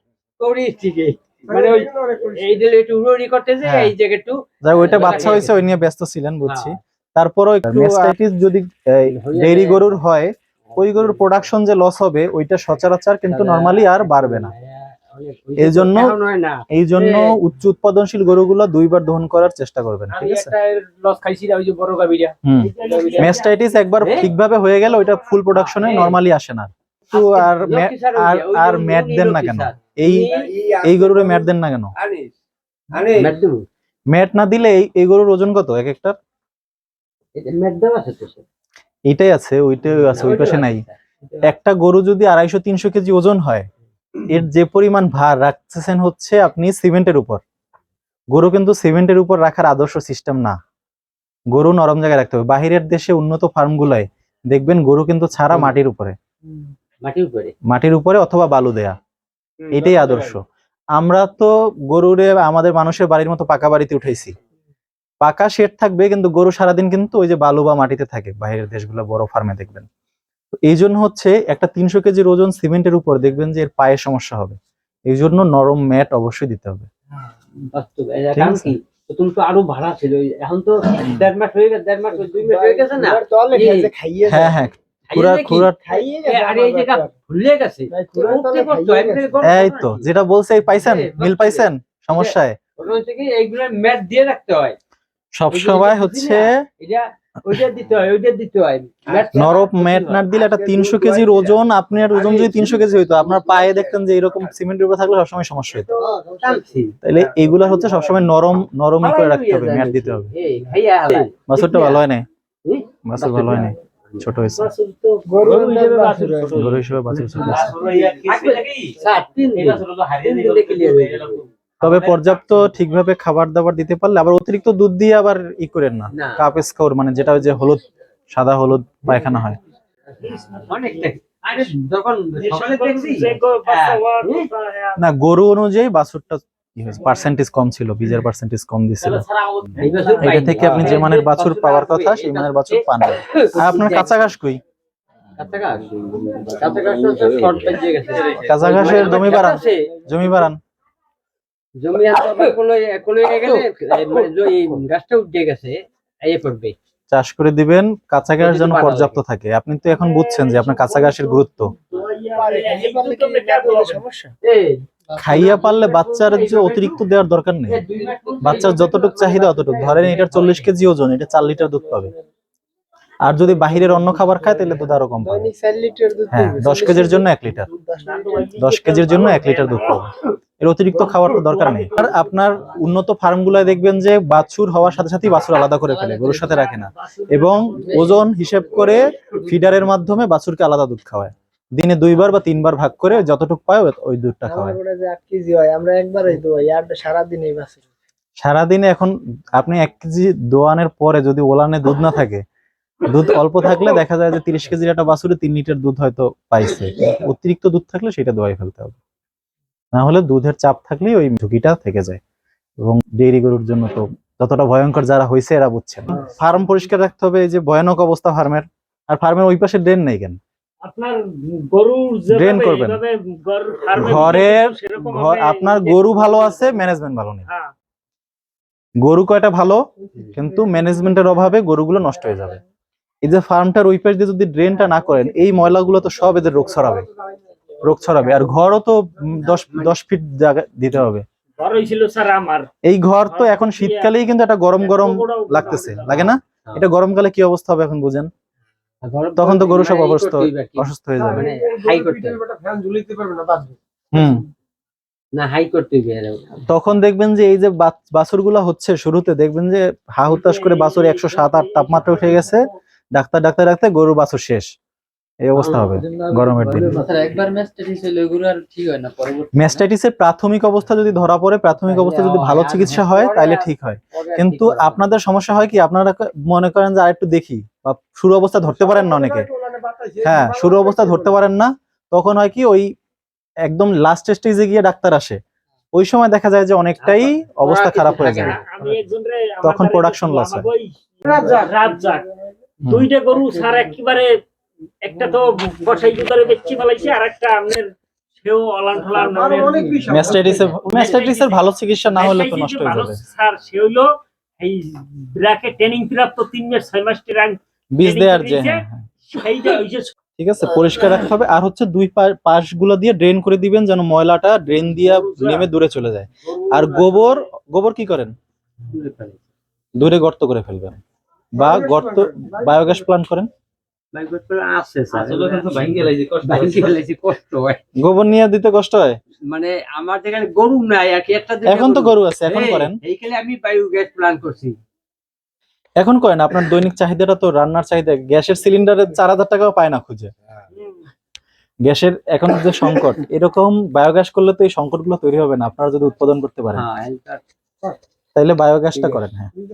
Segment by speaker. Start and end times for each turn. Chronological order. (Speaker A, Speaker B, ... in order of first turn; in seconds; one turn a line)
Speaker A: 0.4-5.6
Speaker B: 1.6-2.5
Speaker C: 3.6-3.9
Speaker C: 4.6-14.5
Speaker A: 6.4-6.8
Speaker A: 7.7-8.1
Speaker A: 9.0-10.0
Speaker A: 10.7-11.5
Speaker A: 13.2-17.3
Speaker C: 15.6-16.1
Speaker C: 16.7-20.5
Speaker A: 20.2-23.4
Speaker C: 22.4-30.3
Speaker D: 22.6-23.9
Speaker A: 24.0-24.3
Speaker D: 24.9-25.4
Speaker A: 25.5-26.2
Speaker A: 27.1-30.5
Speaker B: 30.5-31.5
Speaker C: 30.8-31.9
Speaker B: 32.9-33.3
Speaker A: 33.1-33.6
Speaker C: 34.1-36.1
Speaker A: 37.4-38.4
Speaker C: 39.1-40.8
Speaker A: 40.1-41.4
Speaker C: 41.4-43.7
Speaker C: 44.2-47.4
Speaker C: 48.3-50.5
Speaker C: 51.5-56.1
Speaker A: 55.5-55.8
Speaker A: 57.0-57.5
Speaker C: 57.7-58.9
Speaker C: 59.7-60.4
Speaker C: 61.0-64.3
Speaker C: 65.2-69.9
Speaker C: 70.7-74.5
Speaker C: 75.1-76.9
Speaker A: 77.7-83.9
Speaker C: 78.3-78.7
Speaker C: 81.0-81.3
Speaker B: 82.3-84.7
Speaker C: 84.3-85.8
Speaker A: 85.1-90.0
Speaker B: 85.8-87.1
Speaker B: 87.9-89.4
Speaker C: 89.4-92.6
Speaker A: 90.8-94.8
Speaker C: 95.3-96.6
Speaker A: 95.5-100.3
Speaker C: 99.3-106.0
Speaker B: 100.3-101.5
Speaker B: 106.0-106.6
Speaker A: 106.4-106.9
Speaker C: 107.0-110.3
Speaker A: 109.0-112.0
Speaker C: 111.5-112.2
Speaker A: 112.6-114.2
Speaker C: 113.0-114.7
Speaker D: 114.6-116.8
Speaker B: 115.3-116.6
Speaker C: 116.5-117.8
Speaker A: 117.2-117.7
Speaker E: 117.3-122.4
Speaker A: 118.2-121.4
Speaker C: 121.8-127.8
Speaker A: 126.1-126.4
Speaker C: 128.3-129.6
Speaker D: 130.2-131.7
Speaker A: 130.7-134.5
Speaker D: 132.4-135.0
Speaker C: 135.0-139.2
Speaker E: 139.0-140.4
Speaker A: 139.8-144.2
Speaker C: 140.2-144.6
Speaker A: 145.4-149.8
Speaker E: 147.2-148.4
Speaker C: 148.5-150.6
Speaker A: 151.8-156.8
Speaker C: 157.1-161.7
Speaker A: 158.4-159.2
Speaker D: 159.9-164.0
Speaker B: 162.3-164.3
Speaker A: 164.4-167.0
Speaker C: 165.2-167.8
Speaker A: 167.7-170.7
Speaker B: 168.0-168.6
Speaker C: 168.4-172.1
Speaker B: 171.6-172.2
Speaker C: 173.2-175.5
Speaker B: 173.7-178.5
Speaker C: 176.3-177.7
Speaker D: 178.0-180.1
Speaker C: 178.6-194.8
Speaker D: 181.4-182.1
Speaker A: 185.9-186.4
Speaker D: 186.4-188.3
Speaker A: 187.8-188.2
Speaker B: 194.4-197.8
Speaker C: 198.4-202.4
Speaker C: 203.0-209.0
Speaker C: 209.9-212.2
Speaker C: 212.8-220.4
Speaker D: 220.8-226.8
Speaker C: 222.3-223.0
Speaker C: 223.9-227.4
Speaker D: 227.5-227.7
Speaker C: 229.0-229.8
Speaker C: 230.3-232.6
Speaker C: 233.2-237.1
Speaker B: 236.6-238.5
Speaker C: 237.8-241.2
Speaker A: 239.4-239.9
Speaker D: 241.6-242.7
Speaker C: 242.8-248.3
Speaker D: 243.2-244.1
Speaker D: 244.7-246.3
Speaker A: 246.3-246.8
Speaker A: 249.0-252.4
Speaker C: 249.4-251.5
Speaker B: 251.4-253.7
Speaker C: 254.1-254.4
Speaker A: 255.3-256.5
Speaker C: 256.7-264.7
Speaker D: 260.2-262.8
Speaker C: 265.4-267.0
Speaker A: 265.6-265.9
Speaker B: 266.1-267.2
Speaker E: 267.4-269.4
Speaker C: 269.5-279.5
Speaker A: 271.9-275.0
Speaker B: 278.8-281.4
Speaker C: 280.2-282.9
Speaker C: 283.7-285.4
Speaker C: 285.9-288.6
Speaker A: 287.0-289.0
Speaker D: 288.2-292.3
Speaker C: 289.6-290.7
Speaker B: 291.2-291.8
Speaker C: 292.8-293.1
Speaker D: 292.9-294.4
Speaker D: 295.0-310.1
Speaker B: 299.3-300.5
Speaker C: 300.1-303.2
Speaker C: 308.0-309.1
Speaker C: 310.4-318.3
Speaker D: 315.0-315.7
Speaker A: 316.5-317.4
Speaker A: 318.8-319.4
Speaker C: 320.0-321.0
Speaker C: 321.5-323.5
Speaker B: 321.6-322.5
Speaker A: 324.1-327.8
Speaker E: 325.1-327.0
Speaker C: 328.0-329.2
Speaker A: 329.5-334.8
Speaker C: 331.6-333.0
Speaker C: 336.0-340.3
Speaker D: 340.7-341.0
Speaker C: 341.8-346.8
Speaker A: 346.7-347.4
Speaker C: 348.3-349.5